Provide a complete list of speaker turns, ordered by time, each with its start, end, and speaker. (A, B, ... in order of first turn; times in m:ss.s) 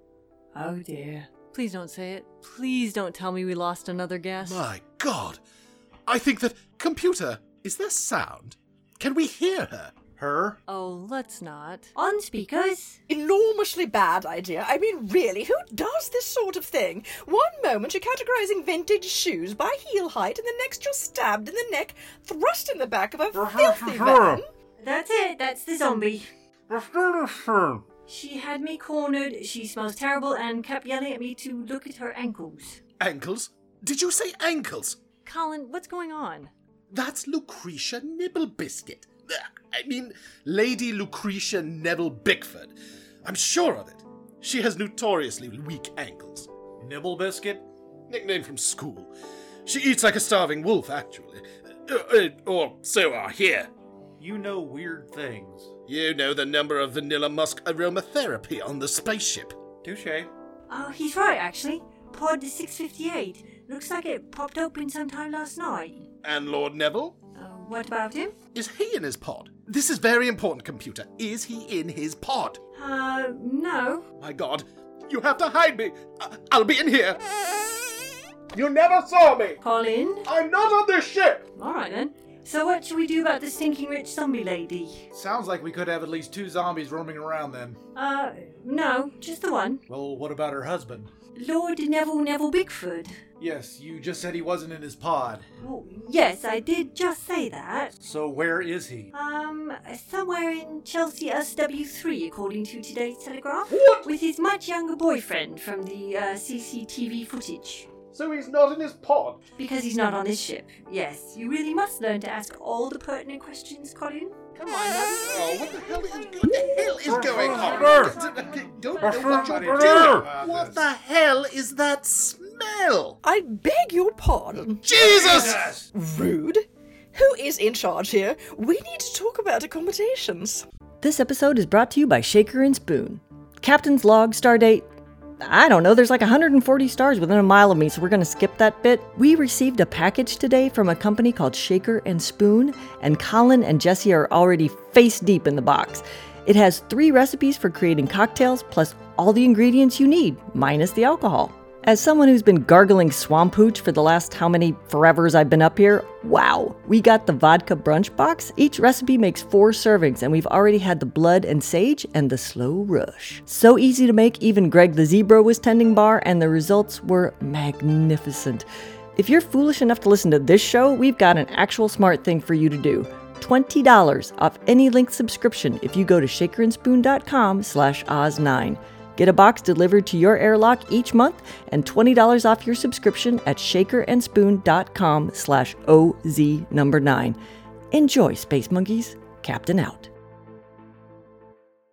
0:00.5-0:04.6 A
0:04.4-0:05.4 B
0:06.1-0:10.0 B
0:10.2-0:10.6 C
0:10.7-0:13.0 A
0:13.1-0:24.5 D
0:23.3-0:24.4 C
0:24.8-0:26.3 A
0:26.7-0:27.8 C
0:28.1-0:32.8 A
0:33.0-0:35.0 B
0:35.2-0:36.5 A
0:36.9-0:46.5 B
0:46.8-0:47.7 C
0:48.1-0:49.1 B
0:49.7-0:53.7 B
0:54.2-0:55.7 C
0:55.9-0:59.6 B
0:59.8-1:00.3 C
1:00.7-1:06.1 A
1:06.2-1:07.2 B
1:07.4-1:08.3 A
1:08.5-1:12.6 B
1:12.7-1:14.0 A
1:14.2-1:17.2 B
1:18.5-1:19.6 B
1:19.6-1:20.3 A
1:20.3-1:21.4 B
1:21.6-1:25.0 A
1:25.1-1:27.8 C
1:28.0-1:29.8 A
1:29.9-1:31.1 C
1:31.4-1:33.2 A
1:33.4-1:35.5 C
1:35.6-1:37.9 A
1:38.0-1:39.1 C
1:39.1-1:47.9 A
1:43.7-1:44.1 B
1:48.1-1:49.4 B
1:49.6-1:55.5 A
1:55.3-2:03.2 B
1:57.0-1:58.1 C
1:59.0-2:00.8 C
2:03.2-2:10.7 D
2:04.8-2:05.6 B
2:05.2-2:05.8 C
2:11.0-2:14.9 E
2:15.4-2:48.7 E
2:49.2-3:07.4 E
3:07.9-3:10.1 E